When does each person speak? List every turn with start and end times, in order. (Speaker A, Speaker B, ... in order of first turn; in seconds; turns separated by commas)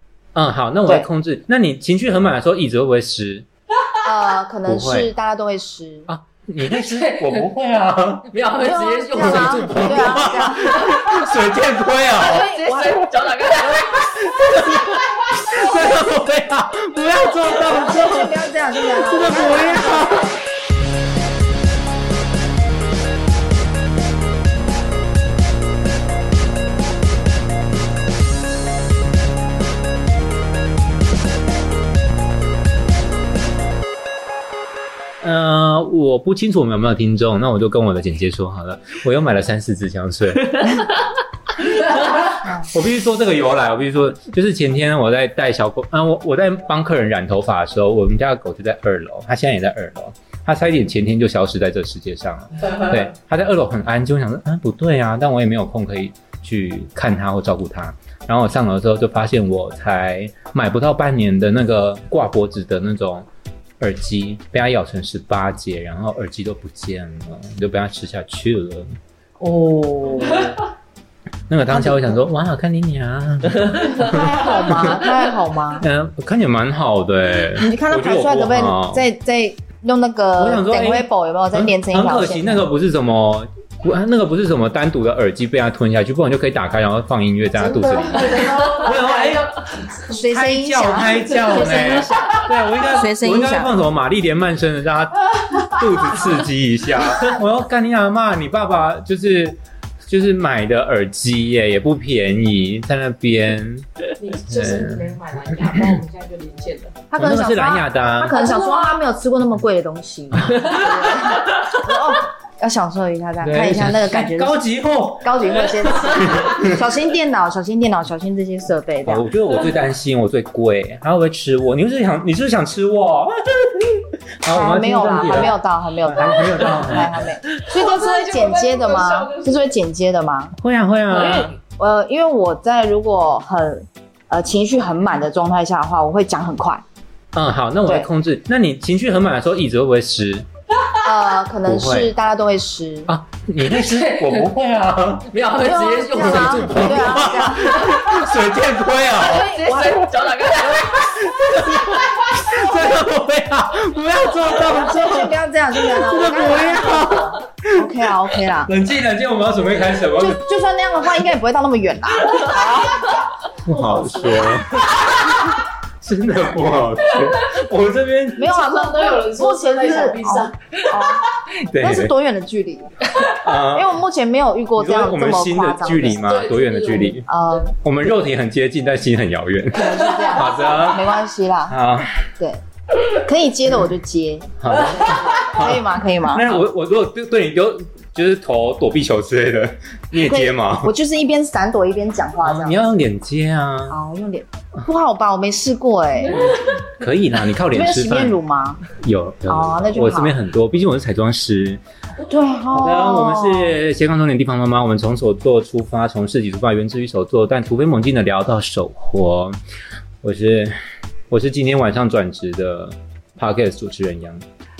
Speaker A: 0.3-3.5, Speaker B: 4.0-6.1, Speaker A: 4.7-5.1, Speaker A: 6.1-8.3, Speaker C: 6.7-7.5, Speaker C: 8.3-11.4, Speaker B: 8.6-10.9, Speaker A: 9.2-12.4, Speaker C: 12.1-14.7, Speaker B: 12.2-13.0, Speaker A: 13.9-20.3, Speaker B: 17.5-20.1, Speaker A: 35.2-40.9, Speaker A: 41.8-63.3, Speaker A: 63.8-69.0, Speaker B: 69.4-70.6, Speaker A: 71.5-75.0, Speaker B: 71.7-72.2, Speaker B: 74.0-75.8, Speaker C: 74.8-75.2, Speaker A: 75.8-79.0, Speaker B: 77.5-82.6, Speaker A: 80.4-89.6, Speaker D: 87.6-89.5, Speaker B: 90.1-93.8, Speaker A: 90.1-103.8, Speaker D: 91.4-92.3, Speaker D: 104.2-107.0, Speaker A: 104.5-105.1, Speaker A: 105.7-106.0, Speaker B: 107.1-114.6, Speaker A: 107.1-108.4, Speaker D: 108.2-109.0, Speaker A: 110.3-110.7, Speaker A: 113.4-116.8, Speaker B: 115.2-119.3, Speaker A: 119.0-127.2, Speaker B: 124.5-130.6, Speaker D: 127.7-129.7, Speaker A: 130.6-131.5, Speaker B: 131.1-136.8, Speaker A: 137.3-140.4, Speaker B: 141.0-143.1, Speaker A: 141.6-142.1, Speaker A: 143.1-145.3, Speaker C: 143.7-144.5, Speaker C: 145.3-148.3, Speaker B: 145.6-148.0, Speaker A: 146.2-149.5, Speaker C: 149.1-151.8, Speaker B: 149.2-150.0, Speaker A: 150.7-160.4, Speaker B: 154.5-158.7, Speaker B: 160.2-163.2, Speaker A: 163.6-168.5, Speaker D: 163.7-164.8, Speaker B: 168.3-176.4, Speaker D: 168.4-170.5, Speaker A: 171.7-172.1, Speaker A: 173.3-173.9, Speaker A: 174.8-177.2, Speaker D: 176.2-177.2, Speaker B: 177.2-177.7, Speaker A: 177.8-181.1, Speaker B: 179.7-181.8, Speaker A: 181.7-182.3, Speaker B: 182.4-186.6, Speaker A: 184.6-190.9, Speaker B: 190.2-192.9, Speaker A: 192.4-194.0, Speaker B: 193.9-196.6, Speaker A: 196.4-201.8, Speaker B: 197.7-198.8, Speaker B: 199.5-200.3, Speaker B: 202.2-203.8, Speaker A: 202.7-209.6, Speaker A: 210.2-210.7, Speaker A: 211.3-214.4